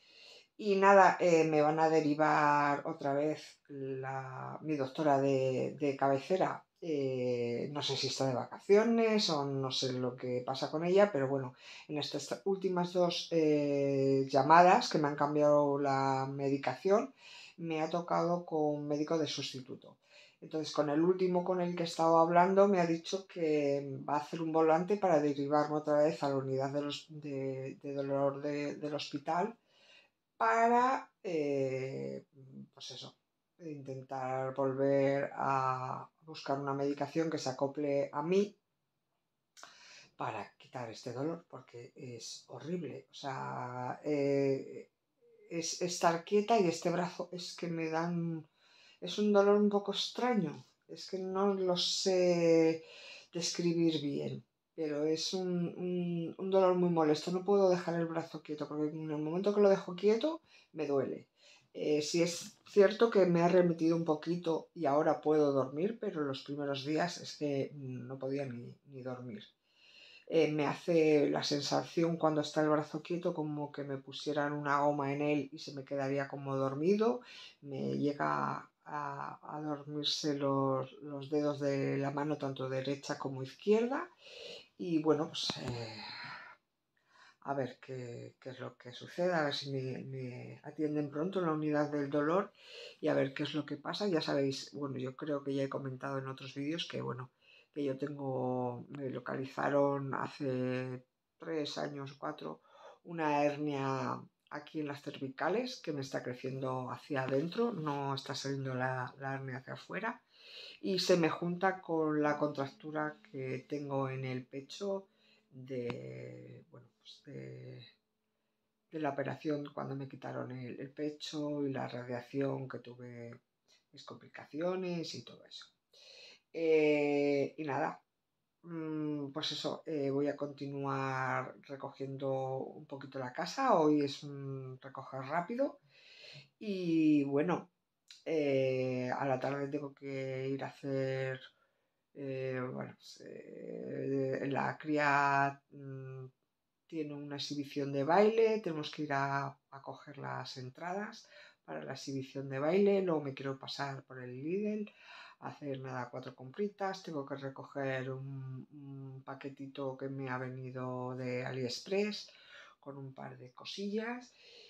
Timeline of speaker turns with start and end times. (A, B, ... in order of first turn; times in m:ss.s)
0:00.6-0:29.6 A
0:30.4-0:38.5 A
0:40.2-0:44.9 A
0:45.5-0:48.5 A
0:49.0-1:09.5 A
1:10.3-1:24.1 A
1:24.8-1:26.1 A
1:27.4-1:50.2 A
1:50.8-1:57.9 A
1:58.9-2:05.7 A
2:06.5-2:08.0 A
2:08.6-2:15.8 A
2:16.6-2:17.7 A
2:18.2-2:21.5 A
2:22.1-2:26.3 A
2:26.9-2:44.3 A